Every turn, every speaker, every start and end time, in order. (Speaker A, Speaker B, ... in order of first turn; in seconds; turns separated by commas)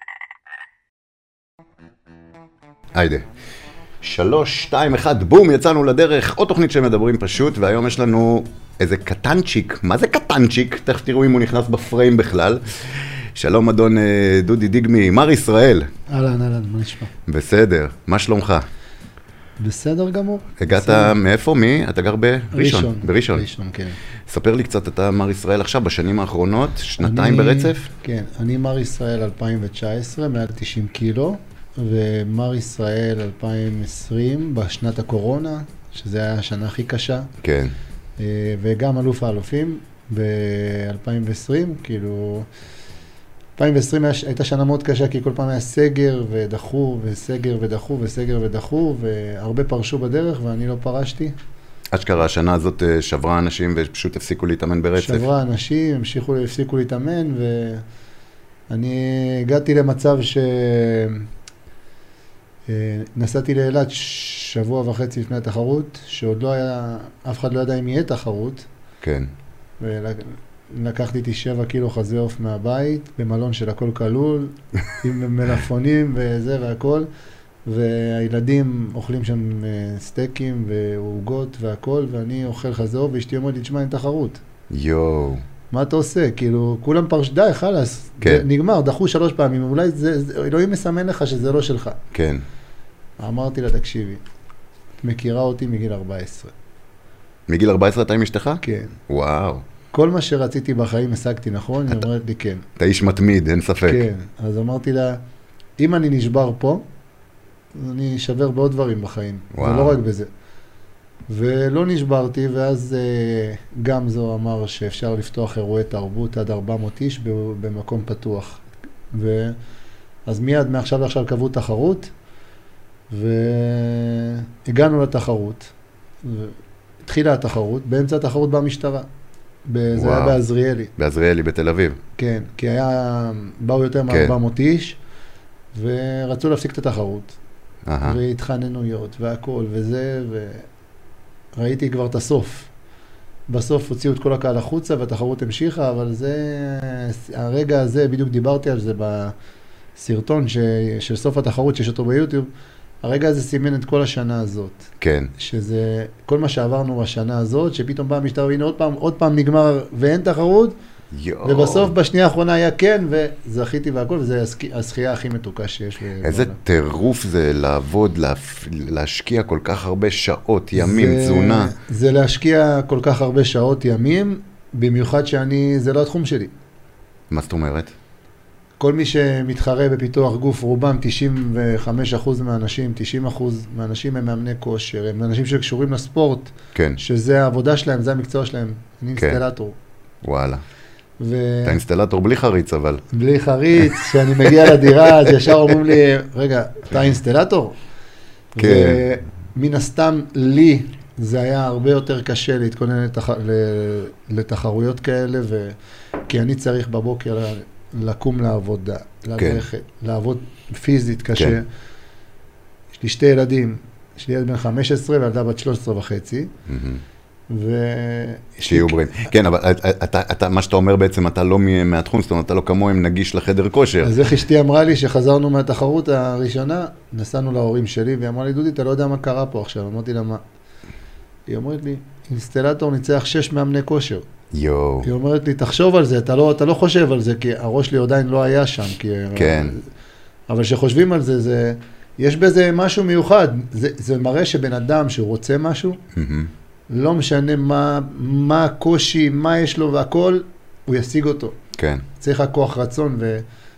Speaker A: 2.9-3.3, Speaker A: 4.0-15.9, Speaker B: 16.1-17.1, Speaker A: 17.3-18.7, Speaker B: 19.6-21.2, Speaker A: 20.6-23.5, Speaker B: 22.5-24.0, Speaker A: 24.3-27.9, Speaker B: 27.0-37.3, Speaker A: 37.4-37.7, Speaker B: 38.2-42.5, Speaker B: 43.6-51.3, Speaker A: 51.9-55.3, Speaker B: 55.0-57.8, Speaker B: 58.7-61.3, Speaker B: 62.7-68.7, Speaker A: 69.0-69.3, Speaker B: 69.8-77.1, Speaker B: 77.7-84.4, Speaker A: 84.7-85.4, Speaker B: 85.7-92.0, Speaker A: 92.1-92.4, Speaker B: 93.2-94.2, Speaker B: 95.0-96.5, Speaker A: 97.5-99.6, Speaker B: 98.6-99.0, Speaker B: 99.9-102.7, Speaker A: 102.8-104.0, Speaker B: 103.8-105.2, Speaker B: 105.8-106.8, Speaker B: 107.8-110.3, Speaker A: 109.5-110.0, Speaker B: 111.3-119.6, Speaker B: 120.3-122.1, Speaker B: 123.1-125.7, Speaker B: 126.2-129.1, Speaker B: 129.7-130.9, Speaker A: 129.9-130.4, Speaker A: 131.0-132.0, Speaker B: 132.2-135.0, Speaker A: 134.1-134.3, Speaker B: 135.7-137.4, Speaker A: 137.9-138.2, Speaker B: 138.0-140.7, Speaker B: 141.6-142.7, Speaker B: 143.5-149.3, Speaker B: 150.0-152.5, Speaker B: 153.0-160.8, Speaker A: 155.0-155.3, Speaker A: 161.1-161.9, Speaker B: 161.4-166.6, Speaker A: 166.2-171.7, Speaker B: 170.8-176.5, Speaker A: 177.3-177.9, Speaker B: 178.8-189.8, Speaker A: 186.8-187.0, Speaker A: 190.2-190.6, Speaker B: 191.2-191.8, Speaker A: 191.7-193.0, Speaker B: 193.1-197.8, Speaker A: 193.8-195.6, Speaker B: 198.6-205.8, Speaker A: 198.6-199.0, Speaker B: 206.3-211.7, Speaker A: 209.4-209.6, Speaker B: 212.9-216.5, Speaker A: 216.7-217.0, Speaker B: 217.5-218.9, Speaker A: 218.6-224.1, Speaker B: 224.0-230.4, Speaker B: 231.5-234.2, Speaker A: 234.5-235.1, Speaker B: 235.0-239.8, Speaker A: 239.3-239.8, Speaker B: 240.5-246.0, Speaker A: 246.1-246.5, Speaker B: 246.9-251.6, Speaker A: 251.8-252.0, Speaker B: 252.2-253.4